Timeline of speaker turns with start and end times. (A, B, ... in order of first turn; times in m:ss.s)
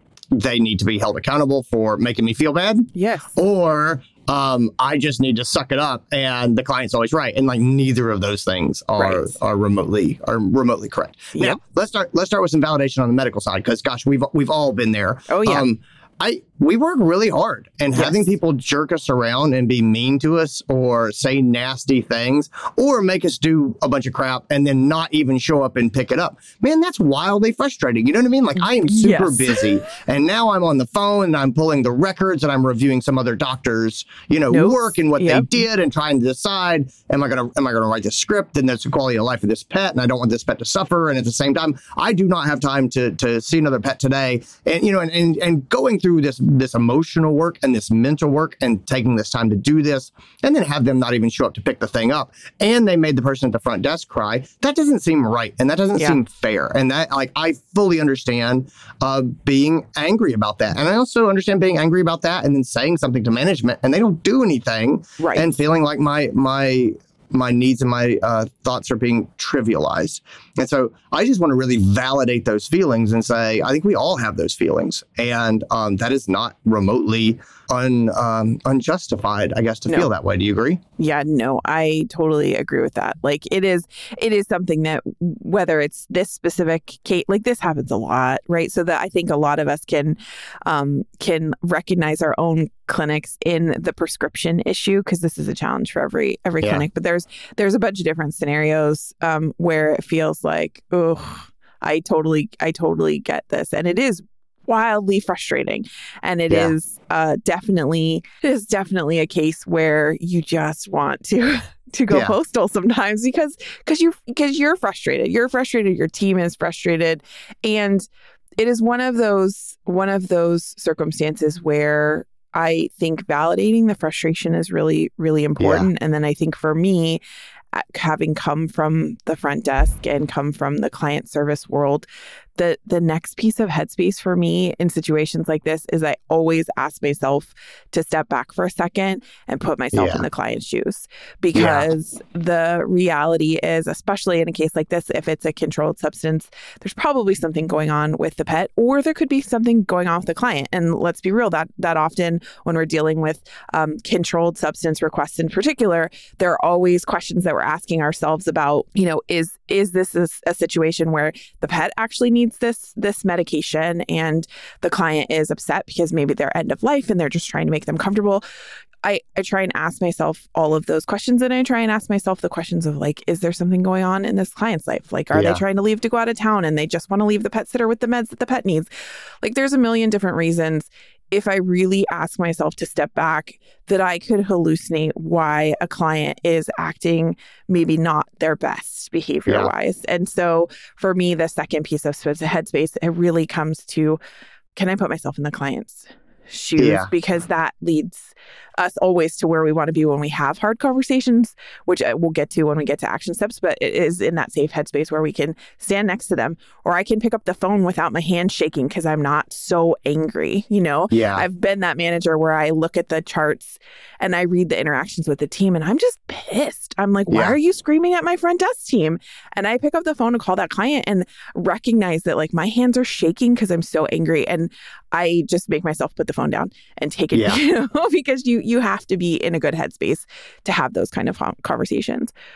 0:00.3-1:20.8 A
0:02.9-0:03.3 B
0:09.0-0:09.3 B
0:11.3-0:11.6 B
0:15.3-0:15.7 B
0:17.9-0:18.3 B
0:28.8-0:29.6 B
0:34.5-0:35.5 B
1:05.2-1:05.5 B
1:21.0-2:07.2 B
2:05.6-2:05.9 A
2:07.7-2:48.4 B
2:19.9-2:20.2 A
2:21.5-2:21.9 A
2:49.0-2:58.9 B
2:55.3-2:55.6 A
2:59.4-3:14.2 B
3:14.7-3:52.3 B
3:16.8-3:17.1 A
3:31.1-3:31.4 A
3:37.3-3:37.6 A
3:47.3-3:47.6 A